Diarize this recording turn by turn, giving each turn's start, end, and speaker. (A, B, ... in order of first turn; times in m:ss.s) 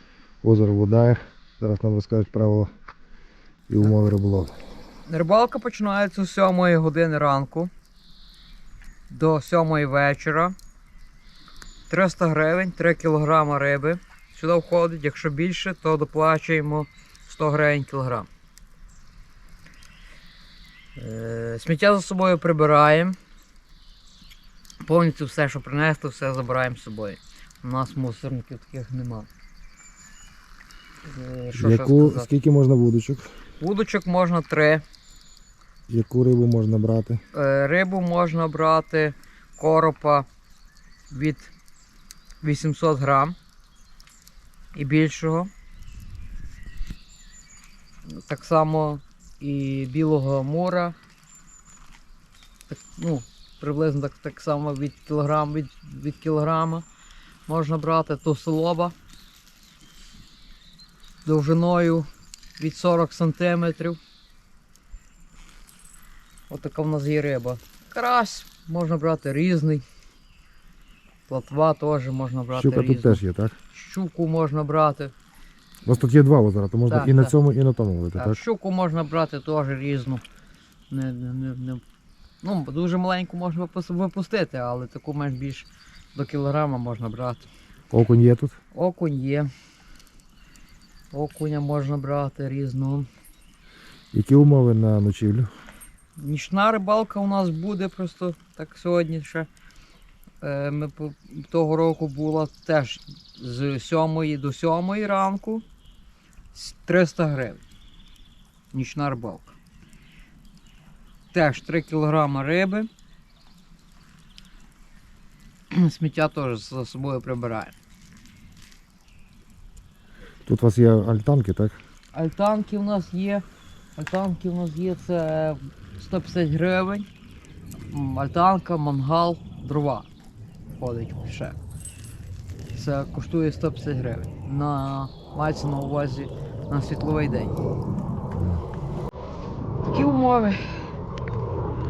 0:00.4-0:02.7 A
0:03.7-0:04.5 A
0:05.1-0:07.7 B
0:09.1-0:10.5 B
0:11.9-0:18.3 B
0:21.0-0:23.2 B
0:24.8-0:29.3 B
0:31.0-0:32.3 B
0:31.5-0:33.3 A
0:33.6-0:34.8 B
0:35.9-0:37.2 A
0:37.3-0:40.2 B
0:41.1-0:41.5 B
0:42.4-0:43.4 B
0:44.7-0:45.5 B
0:48.1-0:51.0 B
0:52.7-0:56.8 B
0:57.5-0:58.9 B
1:01.2-1:04.0 B
1:06.5-1:09.8 B
1:11.3-1:13.2 B
1:12.5-1:13.5 A
1:13.7-1:15.1 B
1:15.8-1:18.4 A
1:16.9-1:17.3 B
1:18.2-1:20.2 B
1:20.9-1:21.8 B
1:22.4-1:27.5 B
1:27.9-1:28.5 A
1:28.7-1:29.5 B
1:31.1-1:33.1 B
1:34.1-1:35.5 A
1:36.2-1:39.5 B
1:40.4-1:45.6 B
1:46.5-1:47.6 B
1:48.7-1:49.6 B
1:51.3-1:52.9 B
1:55.7-1:57.8 B
2:00.4-2:01.8 A
2:02.1-2:03.4 B
2:04.0-2:07.1 B
2:07.9-2:10.1 B
2:10.8-2:11.6 B
2:12.7-2:17.6 B
2:18.3-2:18.6 A
2:19.9-2:20.9 B